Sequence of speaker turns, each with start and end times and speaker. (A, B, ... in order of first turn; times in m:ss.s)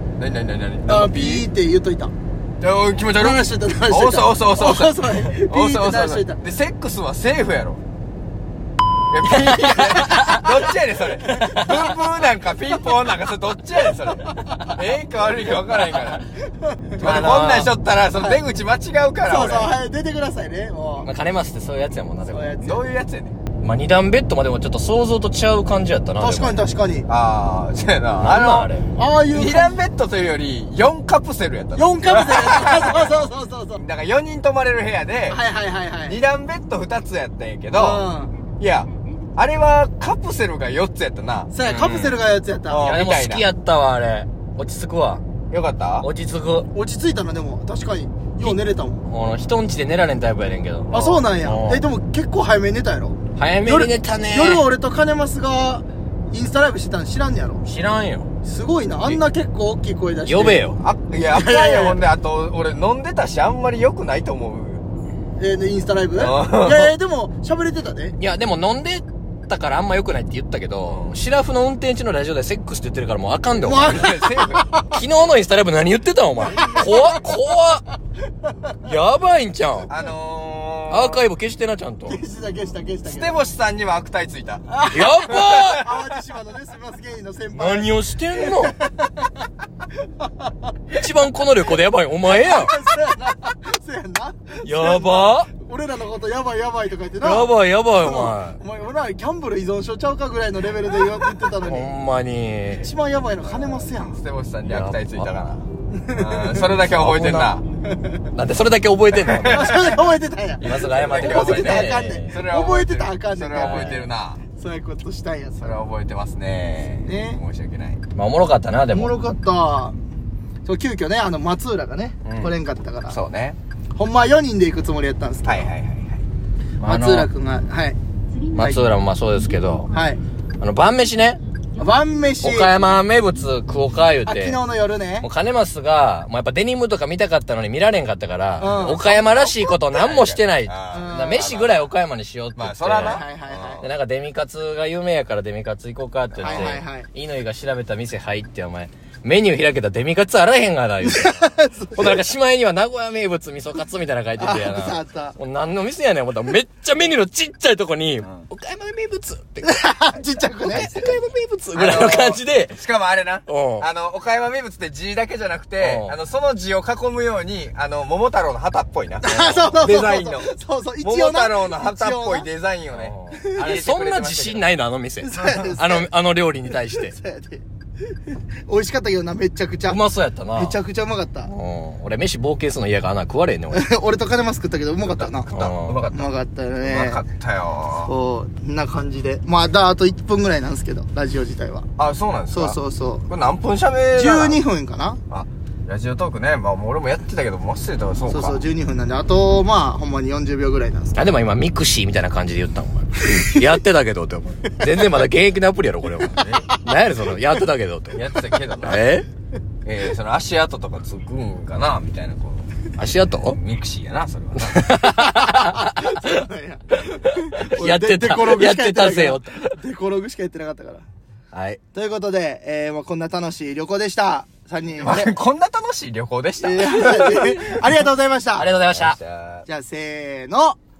0:00.2-0:01.5 A
0:00.9-0:02.1 B
0:02.6-0:07.8 A
0:03.2-0:06.4 B
0:09.1-0:16.2 A
0:10.0-0:10.5 B
0:10.1-0:10.4 C
0:11.2-0:12.0 B
0:16.6-0:17.0 B
0:17.0-0:19.7 A
0:17.0-0:17.7 C
0:18.2-0:18.4 B
0:19.3-0:21.1 B
0:21.0-0:22.5 C
0:22.3-0:22.8 B
0:22.6-0:23.4 A
0:23.6-0:26.6 C
0:26.2-0:27.1 B
0:27.1-0:35.4 A
0:28.2-0:28.8 C
0:29.0-0:29.8 B
0:31.8-0:33.8 B
0:35.3-0:36.2 B
0:36.1-0:38.1 A
0:37.7-0:38.3 B
0:38.6-0:41.5 A
0:41.5-0:43.0 B
0:41.6-0:42.2 C
0:42.7-0:43.5 A
0:42.8-0:45.2 C
0:45.5-0:46.1 A
0:46.0-0:46.7 C
0:46.7-0:49.0 B
0:48.4-0:51.8 C
0:50.9-0:57.7 B
0:53.4-0:54.6 C
0:57.6-0:58.3 C
0:58.4-1:00.7 B
1:00.3-1:00.8 C
1:00.8-1:04.8 A
1:01.3-1:02.0 B
1:05.4-1:08.2 B
1:06.2-1:06.9 A
1:08.2-1:14.2 C
1:10.9-1:11.2 A
1:13.6-1:14.9 B
1:13.8-1:14.7 A
1:14.9-1:17.8 C
1:16.4-1:17.2 B
1:18.8-1:19.9 C
1:19.9-1:21.2 A
1:20.9-1:22.2 C
1:22.1-1:23.4 B
1:23.0-1:24.7 A
1:24.7-1:29.3 B
1:24.9-1:25.9 C
1:25.2-1:25.8 A
1:27.5-1:28.8 C
1:30.2-1:30.5 B
1:30.9-1:32.8 C
1:32.2-1:41.9 B
1:34.6-1:35.5 C
1:37.2-1:38.6 C
1:41.6-1:42.9 C
1:42.8-1:44.2 B
1:43.4-1:47.6 A
1:44.7-1:45.3 C
1:45.9-1:46.6 B
1:46.8-1:47.6 C
1:48.3-1:50.0 C
1:49.2-1:50.0 A
1:49.4-1:55.8 B
1:50.6-1:52.4 C
1:50.6-1:54.4 A
1:53.6-1:54.0 C
1:55.6-1:58.0 A
1:57.1-1:57.4 B
1:58.2-1:59.1 C
1:58.9-2:00.0 B
2:00.6-2:03.2 B
2:02.2-2:02.5 C
2:03.1-2:03.6 A
2:04.0-2:05.7 B
2:05.4-2:06.2 A
2:06.8-2:07.3 C
2:06.8-2:08.0 B
2:08.5-2:09.9 C
2:08.6-2:08.8 B
2:09.9-2:10.2 B
2:10.6-2:11.4 C
2:11.8-2:12.7 B
2:12.4-2:14.6 C
2:14.2-2:15.3 B
2:15.2-2:23.2 C
2:18.6-2:19.0 B
2:18.7-2:21.9 A
2:20.9-2:21.5 B
2:22.6-2:23.8 A
2:23.0-2:23.8 B
2:23.8-2:39.7 C
2:26.4-2:26.8 A
2:26.4-2:27.1 B
2:31.1-2:32.2 B
2:34.4-2:35.4 B
2:39.6-2:41.2 B
2:40.6-2:42.8 C
2:41.7-2:54.6 A
2:43.5-2:43.9 C
2:45.8-2:46.2 C
2:49.2-2:52.5 B
2:49.3-2:49.9 C
2:52.9-2:57.1 C
2:53.3-2:53.9 B
2:55.2-2:56.1 B
2:56.9-2:57.6 B
2:58.7-3:00.0 B
2:59.9-3:00.8 C
3:00.6-3:01.5 B
3:01.5-3:03.8 C
3:03.7-3:05.5 B
3:05.0-3:08.1 A
3:05.5-3:06.0 C
3:06.1-3:07.2 B
3:08.0-3:11.9 B
3:12.0-3:14.6 A
3:12.5-3:13.3 B
3:14.2-3:15.2 B
3:15.3-3:18.6 A
3:18.3-3:21.2 B
3:21.2-3:28.2 C
3:26.3-3:26.8 A
3:28.1-3:29.0 A
3:28.8-3:29.3 C
3:29.8-3:32.7 A
3:33.0-3:33.6 C
3:33.5-3:34.9 A
3:34.7-3:36.1 C
3:35.0-3:41.0 B
3:37.6-3:39.8 C
3:41.5-3:41.8 C
3:41.9-3:45.3 B
3:45.0-3:47.8 A
3:46.6-3:48.7 B
3:48.6-3:49.2 C
3:48.9-3:49.7 A
3:49.7-3:50.8 B